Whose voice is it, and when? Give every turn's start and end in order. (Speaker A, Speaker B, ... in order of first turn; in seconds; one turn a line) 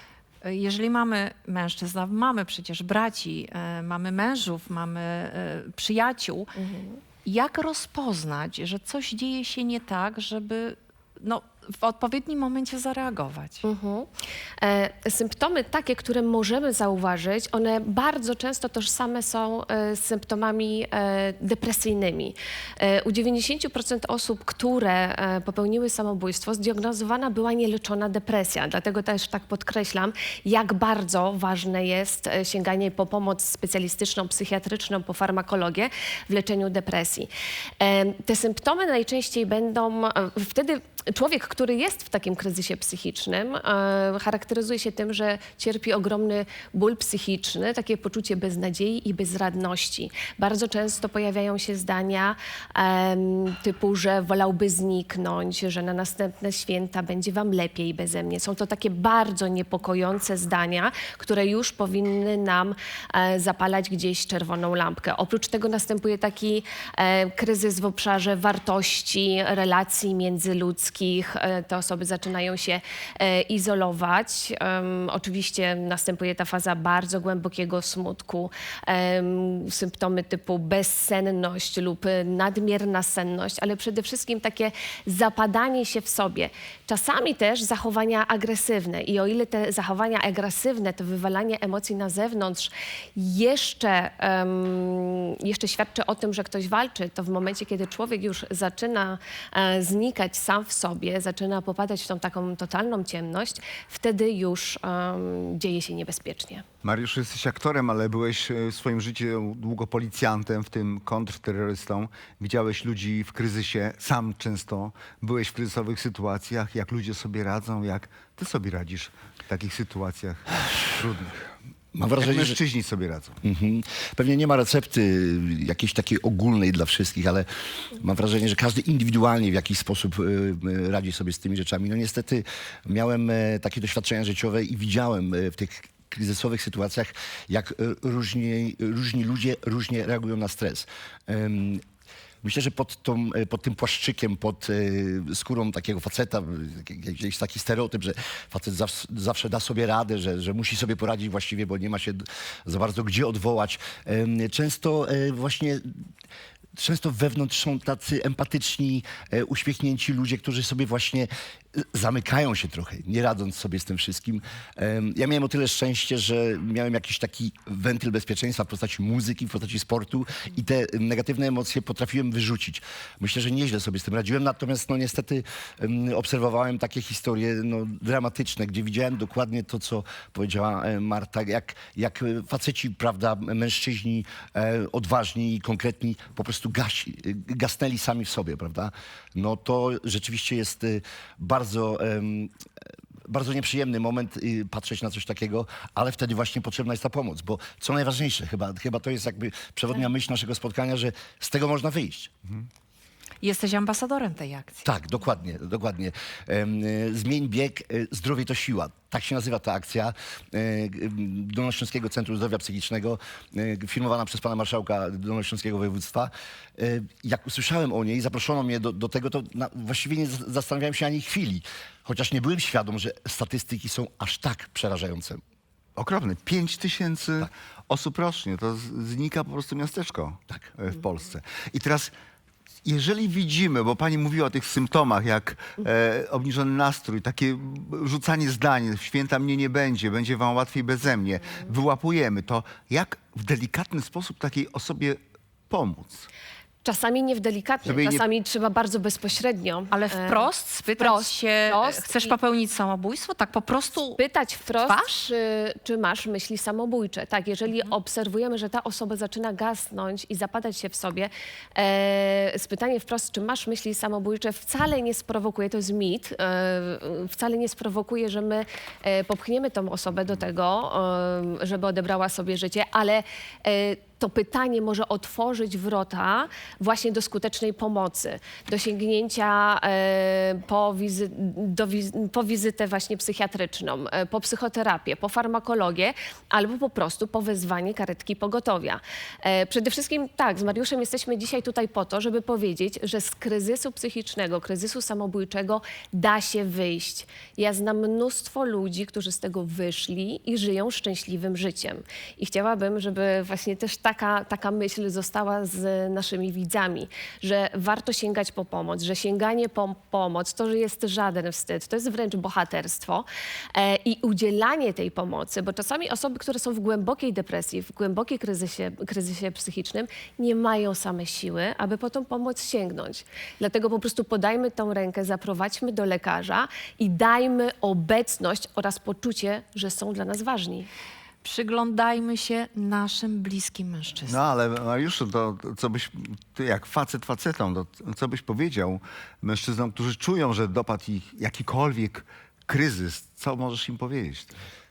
Speaker A: 0.4-6.5
Speaker B: 6.6-7.0
Speaker A: 7.2-13.7
Speaker B: 13.6-37.3
Speaker B: 37.8-106.7
Speaker C: 106.8-121.4
Speaker D: 121.9-122.6
Speaker C: 122.2-123.4
Speaker D: 123.4-141.8
Speaker D: 142.4-156.0
Speaker D: 156.8-192.5
Speaker D: 193.3-202.3
Speaker A: 203.4-204.8
Speaker D: 204.8-225.4
Speaker C: 226.0-232.1
Speaker C: 232.8-246.3
Speaker B: 246.8-252.3
Speaker C: 247.8-248.2
Speaker A: 249.9-254.2
Speaker B: 254.2-330.9
Speaker A: 254.8-255.1
Speaker A: 331.4-334.4
Speaker C: 334.3-344.6